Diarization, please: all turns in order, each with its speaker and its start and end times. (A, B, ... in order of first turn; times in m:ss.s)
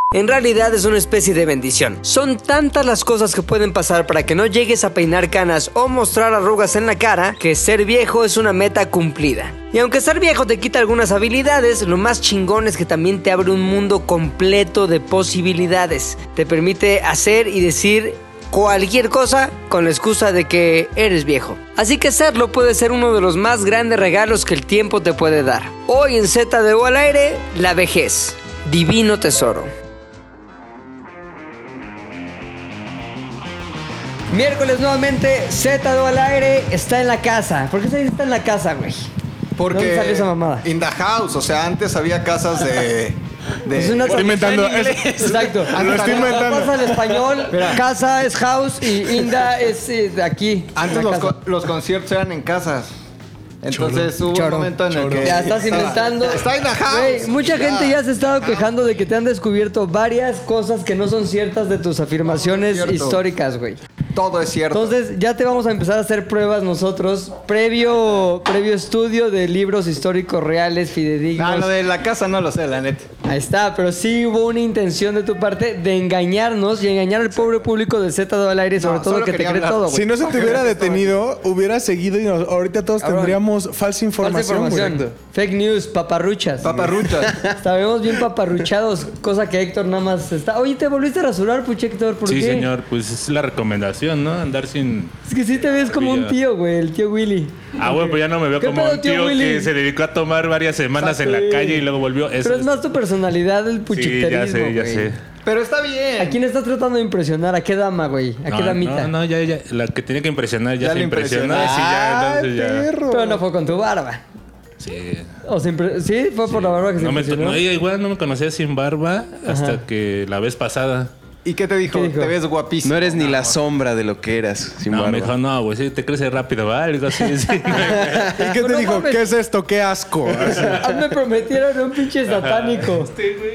0:00.1-0:29.7 A
0:34.3-0:39.1 A
0:39.6-0:44.2 B
0:39.7-0:40.6 A
0:43.7-0:51.4 A
0:44.1-0:46.9 C
0:44.2-0:45.4 D
0:45.7-0:46.6 B
0:47.5-0:47.8 C
0:50.8-0:52.9 B
0:53.6-0:58.7 B
0:53.7-0:54.1 C
0:54.3-1:03.8 A
0:54.9-0:55.4 C
1:02.3-1:03.2 B
1:04.2-1:05.0 B
1:04.7-1:11.7 A
1:11.4-1:13.1 B
1:13.2-1:20.9 A
1:18.8-1:21.0 B
1:19.9-1:24.9 C
1:23.0-1:23.4 A
1:24.2-1:26.8 A
1:24.8-1:25.1 D
1:26.6-1:27.4 B
1:27.5-1:32.7 A
1:32.3-1:36.3 E
1:35.3-1:39.7 A
1:37.8-1:42.9 E
1:41.0-1:41.8 A
1:42.4-1:45.1 A
1:43.9-1:45.2 E
1:45.4-1:46.4 B
1:46.2-1:49.1 A
1:48.5-1:52.9 E
1:50.8-1:52.1 B
1:52.4-1:53.2 C
1:53.1-1:54.2 A
1:54.8-1:55.3 E
1:55.4-1:57.6 A
1:56.5-2:01.1 E
1:59.5-1:59.8 A
2:01.4-2:03.5 B
2:01.9-2:02.3 A
2:02.8-2:05.3 D
2:04.9-2:08.4 E
2:07.9-2:08.3 D
2:08.4-2:10.9 C
2:08.4-2:09.3 A
2:10.7-2:13.2 A
2:12.3-2:12.8 E